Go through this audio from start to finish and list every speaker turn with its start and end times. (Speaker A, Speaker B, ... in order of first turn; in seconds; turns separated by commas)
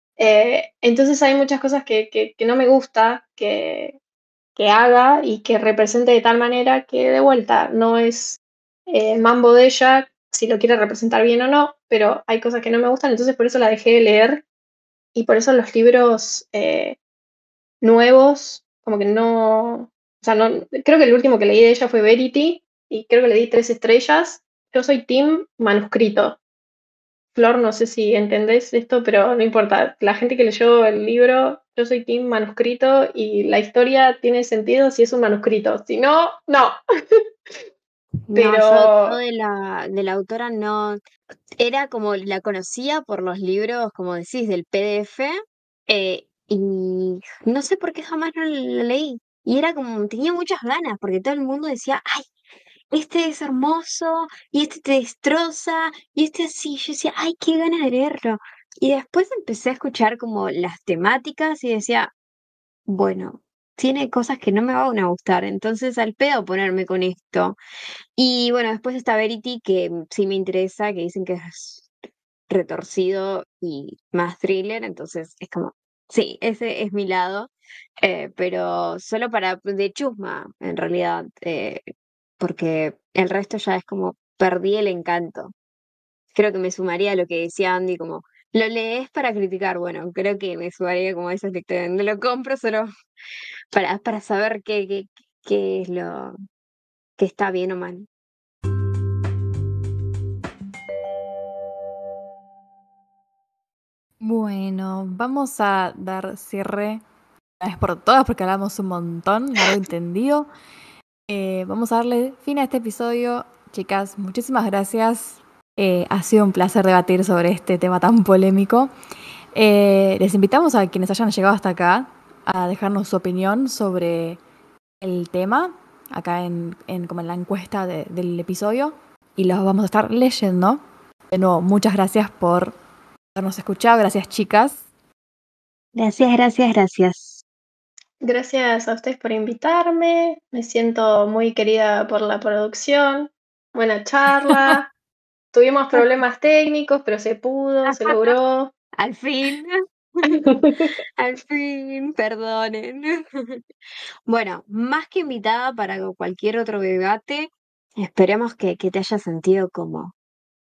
Speaker A: 0.2-4.0, Speaker A: 4.5-14.4, Speaker A: 15.1-17.0, Speaker A: 17.8-26.4, Speaker A: 27.3-37.2, Speaker B: 38.3-41.0, Speaker A: 38.3-39.2, Speaker B: 41.6-45.4, Speaker B: 45.9-52.3, Speaker B: 52.9-62.1, Speaker B: 62.9-67.6, Speaker B: 68.2-71.9, Speaker B: 72.5-77.5, Speaker B: 78.0-81.8, Speaker B: 82.4-85.5, Speaker B: 86.3-92.9, Speaker B: 93.7-96.3, Speaker B: 97.2-98.1, Speaker C: 104.2-107.0, Speaker C: 107.6-110.5, Speaker C: 111.3-118.9, Speaker C: 119.5-124.4, Speaker C: 125.0-130.8, Speaker C: 131.3-132.7, Speaker C: 133.3-134.8, Speaker B: 135.9-137.4, Speaker A: 138.2-144.9, Speaker A: 145.5-148.7, Speaker B: 147.8-148.3, Speaker B: 149.0-150.3, Speaker A: 150.2-150.9, Speaker B: 151.2-153.6, Speaker B: 154.3-160.1